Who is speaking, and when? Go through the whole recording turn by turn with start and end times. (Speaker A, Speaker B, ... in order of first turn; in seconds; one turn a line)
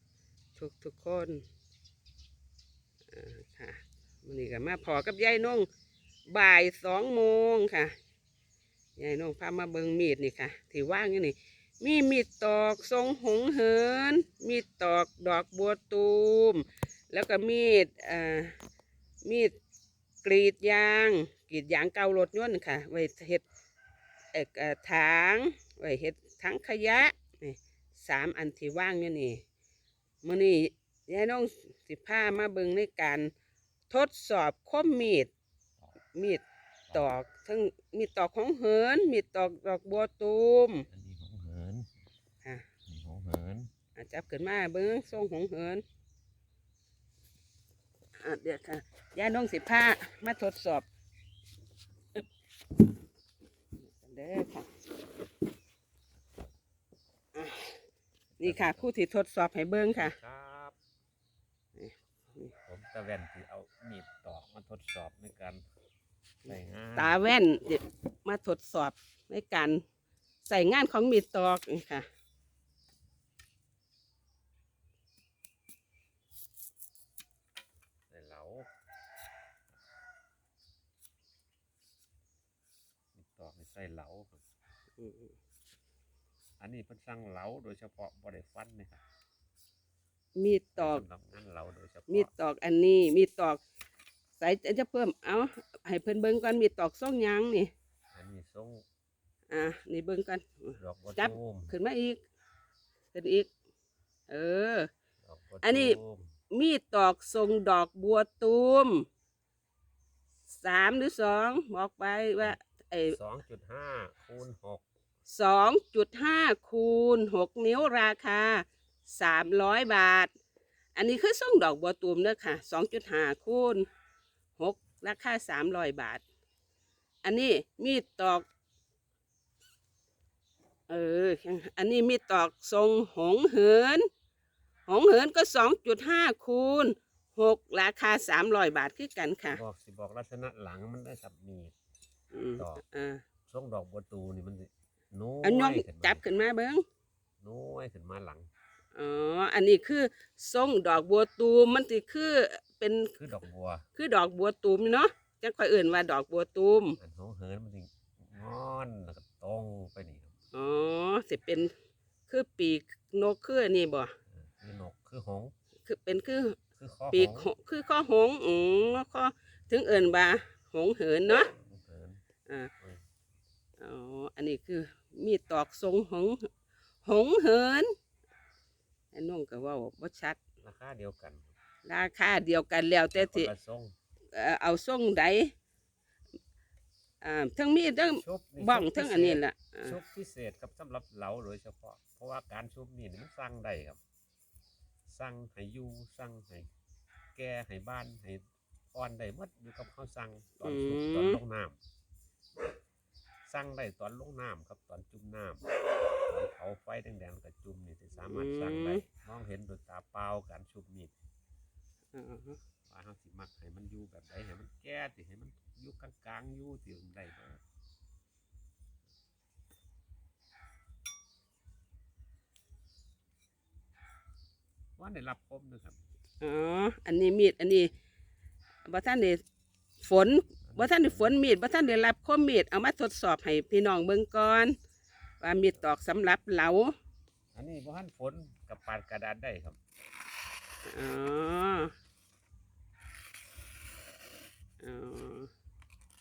Speaker A: 0.6-1.4
Speaker A: 3.1-5.7
Speaker A: 6.3-7.9
Speaker A: 9.0-18.5
Speaker A: 19.2-19.5
Speaker A: 20.2-23.4
Speaker A: 24.3-29.4
Speaker A: 30.2-33.3
Speaker A: 33.9-35.3
Speaker A: 36.1-40.9
Speaker B: 40.9-41.9
Speaker B: 42.9-43.7
Speaker A: 43.9-45.8
Speaker A: 48.2-50.9
Speaker A: 53.8-54.7
Speaker A: 57.3-57.8
Speaker B: 58.4-58.9
Speaker A: 58.4-60.1
Speaker B: 59.9-60.8
Speaker A: 61.8-62.5
Speaker B: 62.6-65.6
Speaker B: 66.5-67.2
Speaker A: 66.5-69.8
Speaker A: 70.4-72.1
Speaker B: 78.1-78.7
Speaker B: 83.1-84.4
Speaker A: 85.0-85.3
Speaker B: 86.6-89.0
Speaker A: 90.3-91.0
Speaker B: 90.7-92.3
Speaker A: 92.1-93.6
Speaker A: 94.4-97.7
Speaker B: 98.1-98.8
Speaker A: 99.5-102.2
Speaker B: 100.8-101.7
Speaker A: 103.1-103.5
Speaker A: 104.3-104.9
Speaker B: 105.2-106.3
Speaker A: 105.6-106.0
Speaker A: 106.5-109.0
Speaker A: 110.5-113.2
Speaker B: 113.1-114.8
Speaker A: 115.3-120.3
Speaker A: 120.9-123.9
Speaker A: 124.6-126.2
Speaker A: 127.2-128.4
Speaker A: 130.9-134.1
Speaker A: 134.9-139.6
Speaker B: 139.5-141.7
Speaker A: 142.3-143.2
Speaker B: 142.6-142.8
Speaker B: 143.5-146.2
Speaker A: 145.4-146.8
Speaker B: 147.4-148.5
Speaker A: 148.9-153.3
Speaker B: 153.2-153.8
Speaker A: 153.9-157.0
Speaker B: 157.0-160.3
Speaker A: 160.5-161.7
Speaker A: 162.3-164.1
Speaker B: 164.3-165.5
Speaker A: 165.8-166.6
Speaker B: 166.8-167.5
Speaker A: 167.1-171.5
Speaker B: 171.5-172.2
Speaker A: 172.4-172.7
Speaker A: 173.8-176.5
Speaker A: 177.0-177.9
Speaker A: 179.1-180.4
Speaker B: 180.6-181.5
Speaker A: 181.8-183.5
Speaker B: 183.1-183.9
Speaker A: 184.3-185.5
Speaker A: 187.2-190.0
Speaker B: 188.1-194.0
Speaker B: 195.1-196.7
Speaker B: 197.3-201.8
Speaker A: 200.6-201.4
Speaker B: 203.4-205.7
Speaker B: 206.2-211.1
Speaker A: 208.2-209.0
Speaker A: 212.1-212.6
Speaker B: 212.9-217.6
Speaker B: 225.0-226.0
Speaker A: 226.4-227.9
Speaker A: 228.8-229.4
Speaker A: 230.0-234.7
Speaker B: 230.7-231.3
Speaker A: 235.4-236.9
Speaker B: 237.5-239.8
Speaker A: 240.8-241.9
Speaker A: 244.8-245.5